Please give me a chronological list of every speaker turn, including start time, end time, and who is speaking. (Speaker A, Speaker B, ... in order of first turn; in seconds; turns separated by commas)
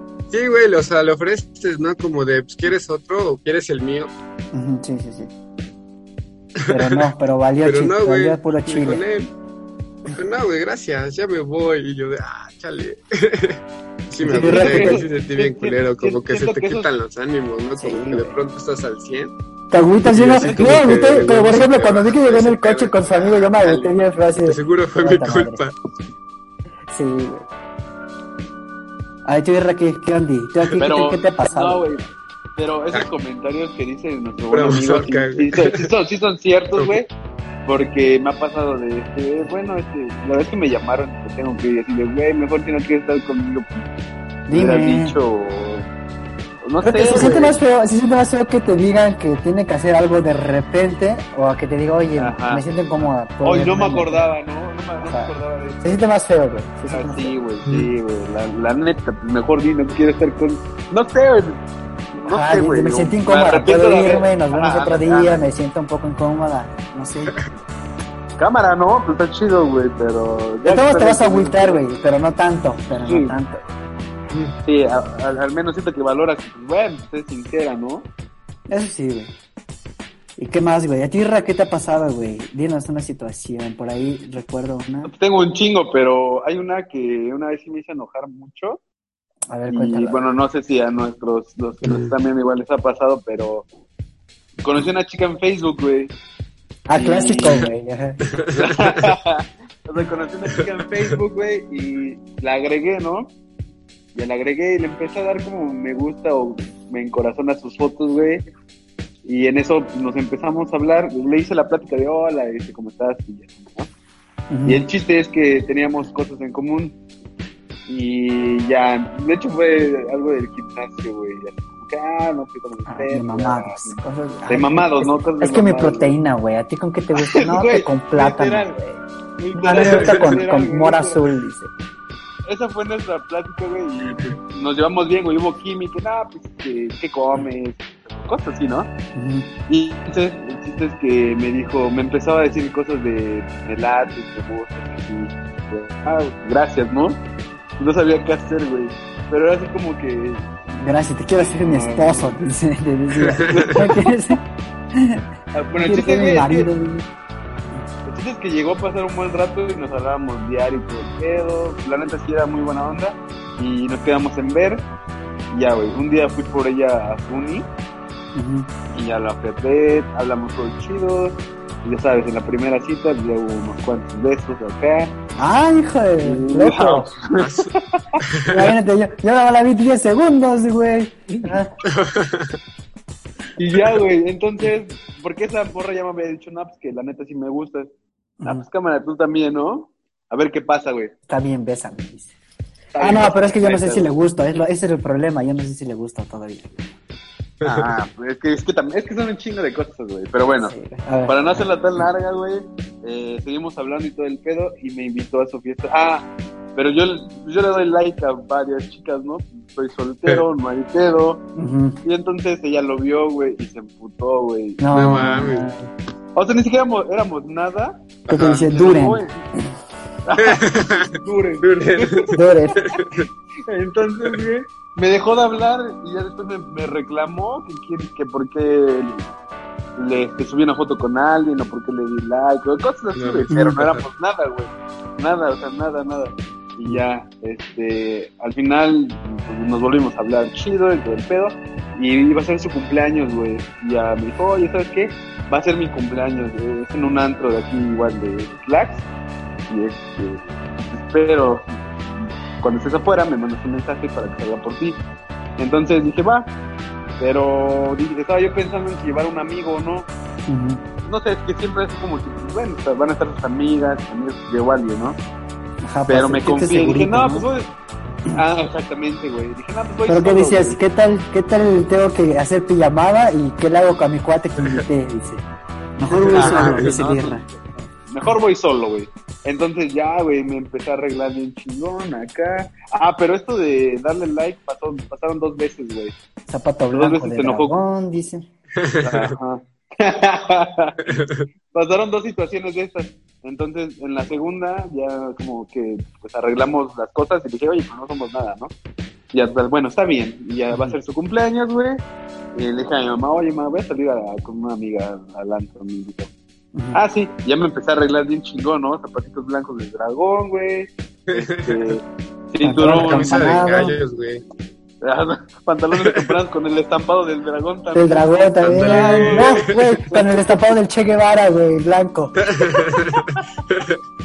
Speaker A: 0.3-4.1, Speaker B: 4.5-5.3, Speaker A: 6.6-7.0, Speaker B: 6.7-9.0, Speaker A: 7.6-9.3, Speaker A: 10.1-13.6, Speaker A: 14.1-19.3, Speaker B: 14.2-15.0, Speaker C: 14.3-16.9, Speaker B: 17.8-18.4, Speaker B: 19.7-25.6, Speaker A: 20.0-25.7, Speaker C: 20.4-20.8, Speaker B: 26.9-27.5, Speaker B: 29.2-31.8, Speaker C: 30.8-32.0, Speaker C: 32.6-37.1, Speaker A: 34.5-35.8, Speaker C: 37.6-43.8, Speaker B: 44.5-45.1, Speaker C: 44.5-45.9, Speaker C: 46.6-47.6, Speaker B: 46.8-54.3, Speaker C: 52.2-56.0, Speaker B: 55.0-57.3, Speaker C: 56.9-61.6, Speaker A: 57.6-57.9, Speaker C: 62.1-65.5, Speaker B: 62.3-67.6, Speaker C: 68.4-71.8, Speaker B: 70.6-73.7, Speaker C: 73.0-73.3, Speaker C: 74.6-78.1, Speaker B: 78.7-79.3, Speaker B: 80.4-85.1, Speaker C: 85.0-88.8, Speaker B: 89.5-90.2, Speaker C: 89.7-93.7, Speaker A: 91.8-92.1, Speaker C: 94.6-96.1, Speaker B: 96.9-98.2, Speaker C: 96.9-97.6, Speaker A: 98.3-99.0, Speaker C: 98.5-103.3, Speaker C: 104.1-108.5, Speaker C: 109.2-113.9, Speaker B: 114.5-114.8, Speaker C: 114.7-117.0, Speaker C: 117.9-126.1, Speaker B: 122.9-129.0, Speaker C: 127.2-128.8, Speaker C: 129.4-131.2, Speaker B: 129.5-131.7, Speaker C: 132.4-138.9, Speaker B: 139.1-139.5, Speaker C: 139.7-147.2, Speaker C: 147.8-150.5, Speaker B: 150.7-154.4, Speaker C: 151.6-152.4, Speaker C: 153.5-153.9, Speaker B: 154.9-155.2, Speaker C: 155.5-156.7, Speaker B: 155.8-157.1, Speaker C: 158.1-164.8, Speaker C: 165.5-167.7, Speaker B: 168.3-168.7, Speaker C: 168.9-175.1, Speaker B: 175.4-177.1, Speaker C: 176.2-177.7, Speaker A: 177.3-177.7, Speaker B: 178.5-181.8, Speaker A: 181.8-182.6, Speaker C: 183.6-187.9, Speaker B: 188.4-188.7, Speaker C: 188.4-191.1, Speaker B: 191.3-192.3, Speaker C: 192.9-194.1, Speaker B: 193.0-196.9, Speaker A: 197.6-197.9, Speaker C: 197.6-200.8, Speaker B: 200.6-201.7, Speaker C: 201.3-211.4, Speaker B: 211.6-212.0, Speaker C: 212.0-215.3, Speaker B: 214.8-215.9, Speaker A: 214.9-215.7, Speaker C: 216.3-219.4, Speaker B: 218.3-219.6, Speaker A: 218.3-218.7, Speaker C: 220.2-223.0, Speaker A: 220.4-223.3, Speaker B: 222.3-222.8, Speaker C: 223.7-229.3, Speaker C: 230.0-249.1, Speaker A: 233.1-234.0, Speaker B: 233.5-233.8, Speaker C: 249.7-255.0, Speaker C: 255.6-256.5, Speaker C: 257.2-260.1, Speaker B: 260.5-260.8, Speaker C: 261.0-265.2, Speaker B: 265.8-267.4, Speaker C: 266.1-267.7, Speaker C: 268.3-270.8, Speaker B: 270.1-275.4, Speaker B: 276.0-277.4, Speaker A: 276.1-277.0, Speaker C: 276.3-286.1, Speaker B: 286.5-288.5, Speaker C: 286.9-287.7, Speaker A: 288.8-289.3, Speaker C: 289.0-291.2, Speaker A: 291.1-291.5, Speaker C: 291.7-298.7, Speaker C: 299.3-302.0, Speaker B: 300.7-300.9, Speaker C: 302.5-306.3, Speaker B: 306.7-307.0, Speaker C: 306.9-313.6, Speaker A: 311.3-311.9, Speaker B: 312.6-313.9, Speaker A: 312.9-314.4, Speaker C: 315.0-320.7, Speaker B: 317.9-322.4, Speaker A: 318.6-319.8, Speaker A: 322.4-324.0